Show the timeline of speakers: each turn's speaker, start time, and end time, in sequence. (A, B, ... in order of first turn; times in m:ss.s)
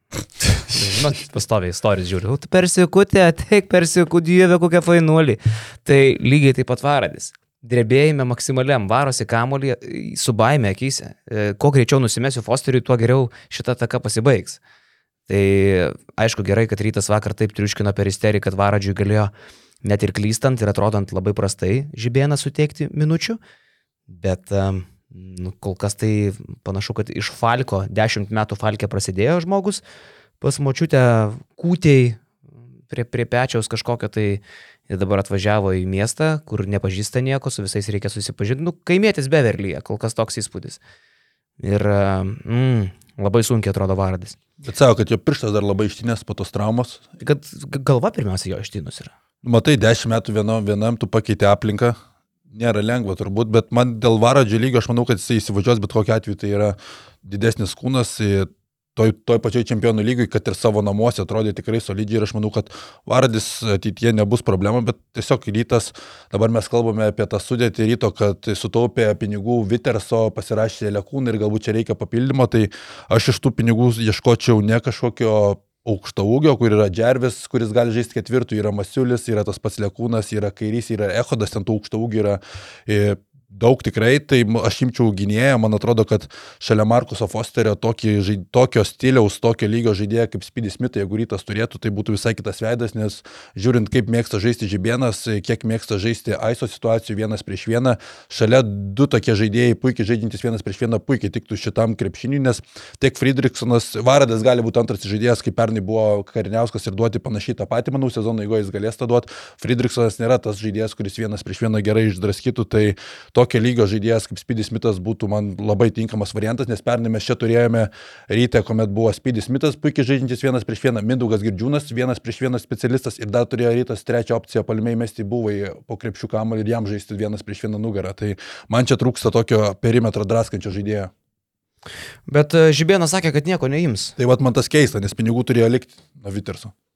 0:00.7-0:14.6 A
0:15.3-0:19.3 A
0:19.8-0:23.4 A
0:24.1-0:29.8 A
0:30.4-0:32.2 A
0:32.9-0:40.8 A
0:41.6-0:44.4 A
0:44.6-0:47.0 B
0:47.2-0:49.1 A
0:49.4-0:52.0 B
0:52.5-2:11.1 B
2:12.3-2:14.2 A
2:14.2-2:16.7 B